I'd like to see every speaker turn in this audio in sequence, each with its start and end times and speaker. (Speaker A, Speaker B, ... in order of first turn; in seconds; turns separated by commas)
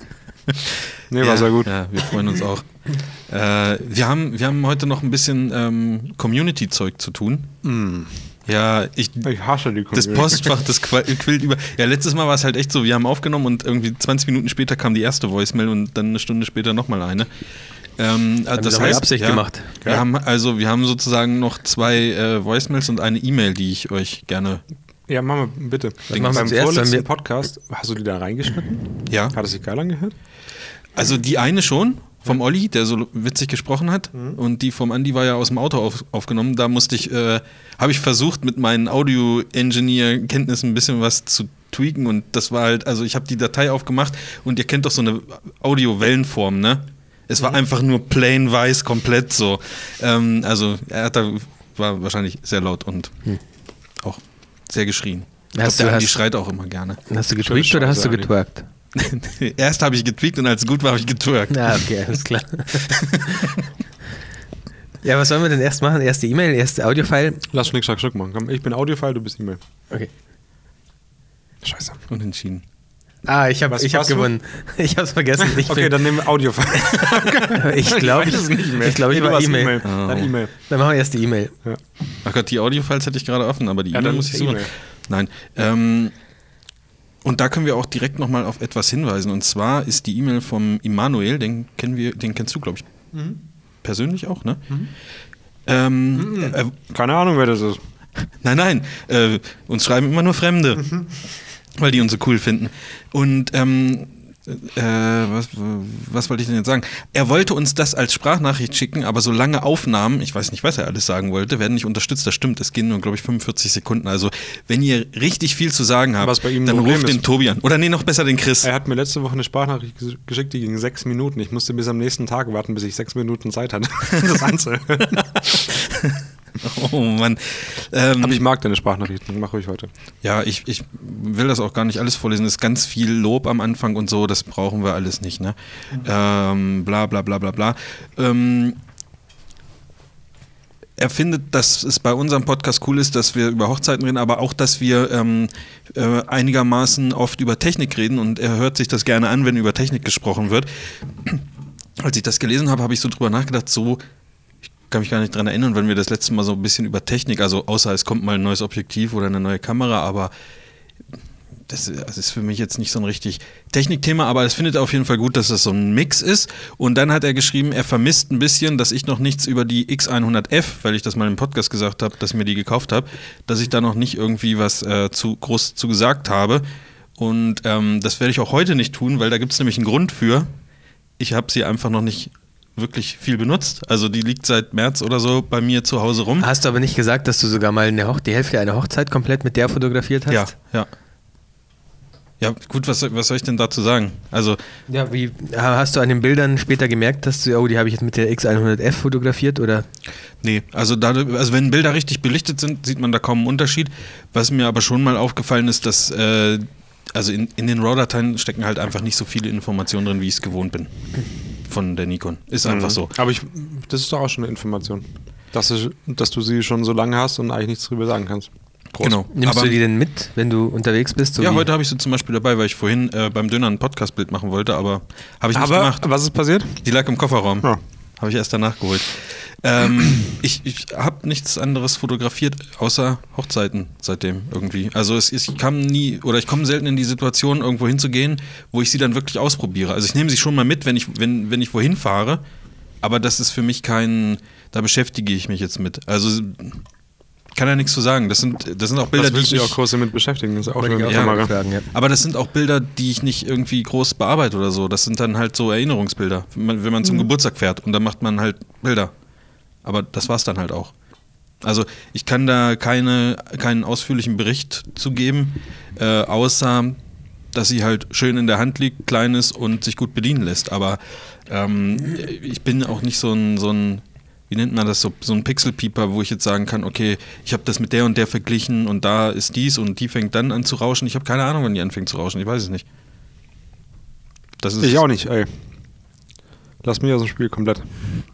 Speaker A: 1.1-1.7, Speaker B: 1.2-7.5, Speaker A: 7.6-8.3, Speaker B: 8.5-9.3, Speaker A: 9.2-10.6, Speaker B: 9.9-17.3, Speaker B: 18.0-24.6, Speaker C: 18.6-19.7, Speaker A: 25.1-30.2, Speaker C: 26.1-27.1, Speaker B: 26.1-26.5, Speaker B: 29.1-29.4, Speaker B: 31.0-53.2, Speaker B: 54.0-57.0, Speaker C: 55.5-56.2, Speaker C: 57.1-58.7, Speaker A: 57.4-58.3, Speaker B: 59.0-61.9, Speaker C: 61.5-63.5, Speaker B: 62.9-63.4, Speaker C: 65.0-67.4, Speaker A: 67.5-69.6, Speaker A: 71.6-72.0, Speaker B: 72.1-72.6, Speaker C: 73.3-76.0, Speaker A: 73.7-74.3, Speaker A: 75.4-80.5, Speaker C: 77.5-79.8, Speaker B: 79.8-80.3, Speaker C: 80.7-81.5, Speaker B: 82.2-86.1, Speaker A: 83.9-84.7, Speaker B: 87.2-92.9, Speaker A: 93.1-93.4, Speaker B: 93.8-94.8, Speaker B: 95.7-96.7, Speaker A: 96.2-97.8, Speaker B: 98.4-101.1, Speaker B: 101.8-118.7, Speaker A: 116.2-117.2, Speaker A: 118.6-125.4, Speaker B: 125.1-128.4, Speaker A: 128.2-129.9, Speaker B: 130.2-138.8, Speaker B: 141.0-150.7, Speaker B: 152.0-154.0, Speaker B: 154.9-160.3, Speaker B: 161.7-176.7, Speaker B: 177.2-180.5, Speaker B: 181.2-186.5, Speaker C: 186.4-190.5, Speaker B: 190.3-190.9, Speaker B: 192.4-194.6, Speaker C: 194.9-199.9, Speaker B: 200.4-210.9, Speaker B: 211.7-213.1, Speaker A: 212.7-219.2, Speaker B: 219.0-219.8, Speaker C: 219.3-221.7, Speaker B: 221.4-226.1, Speaker A: 225.5-226.8, Speaker B: 226.8-242.4, Speaker B: 243.0-246.8, Speaker B: 247.5-249.8, Speaker A: 249.1-251.5, Speaker C: 250.8-251.9, Speaker B: 251.1-259.1, Speaker B: 259.8-260.9, Speaker B: 261.6-267.0, Speaker B: 267.5-282.9, Speaker B: 284.6-285.0, Speaker A: 284.8-285.5, Speaker A: 286.8-288.2